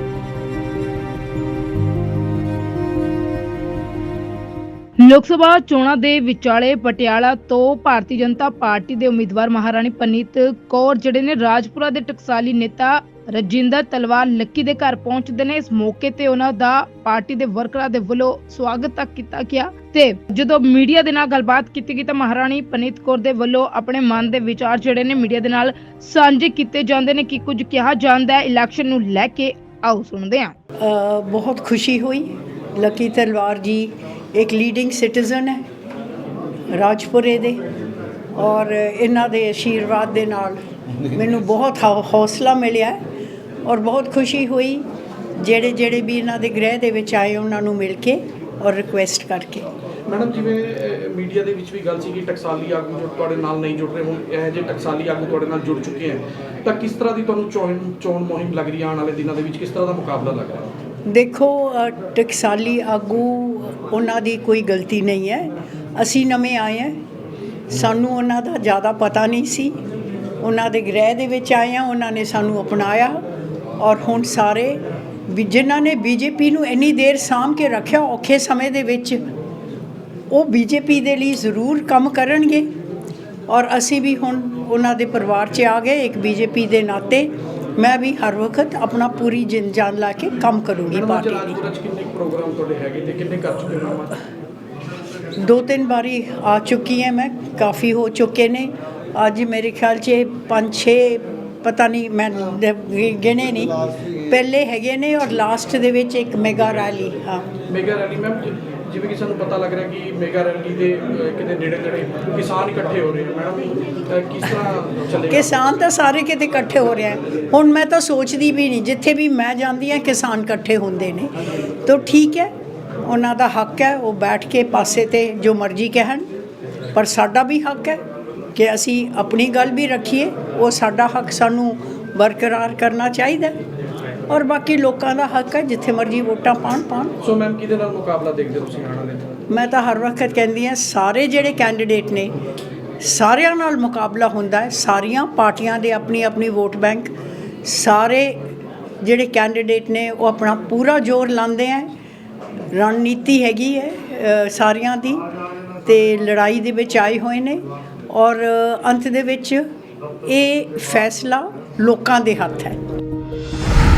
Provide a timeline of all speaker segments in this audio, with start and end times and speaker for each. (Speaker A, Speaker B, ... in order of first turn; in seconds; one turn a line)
Speaker A: 5.0-30.5
Speaker B: 30.8-35.6
Speaker B: 36.7-37.6
Speaker B: 38.4-43.0
Speaker B: 43.6-44.8
Speaker B: 45.4-49.7
Speaker C: 50.1-60.7
Speaker B: 61.1-67.0
Speaker B: 67.7-69.8
Speaker B: 70.4-73.2
Speaker B: 73.8-79.2
Speaker B: 80.3-82.7
Speaker B: 83.5-91.6
Speaker C: 90.9-94.2
Speaker B: 95.4-107.5
Speaker C: 107.7-115.8
Speaker B: 115.3-122.5
Speaker B: 123.0-126.3
Speaker B: 126.9-128.0
Speaker B: 128.5-133.6
Speaker B: 134.3-137.1
Speaker C: 137.2-139.3
Speaker B: 139.5-142.3
Speaker B: 143.0-148.4
Speaker B: 149.0-151.9
Speaker B: 152.7-155.2
Speaker B: 155.8-159.7
Speaker B: 160.2-162.8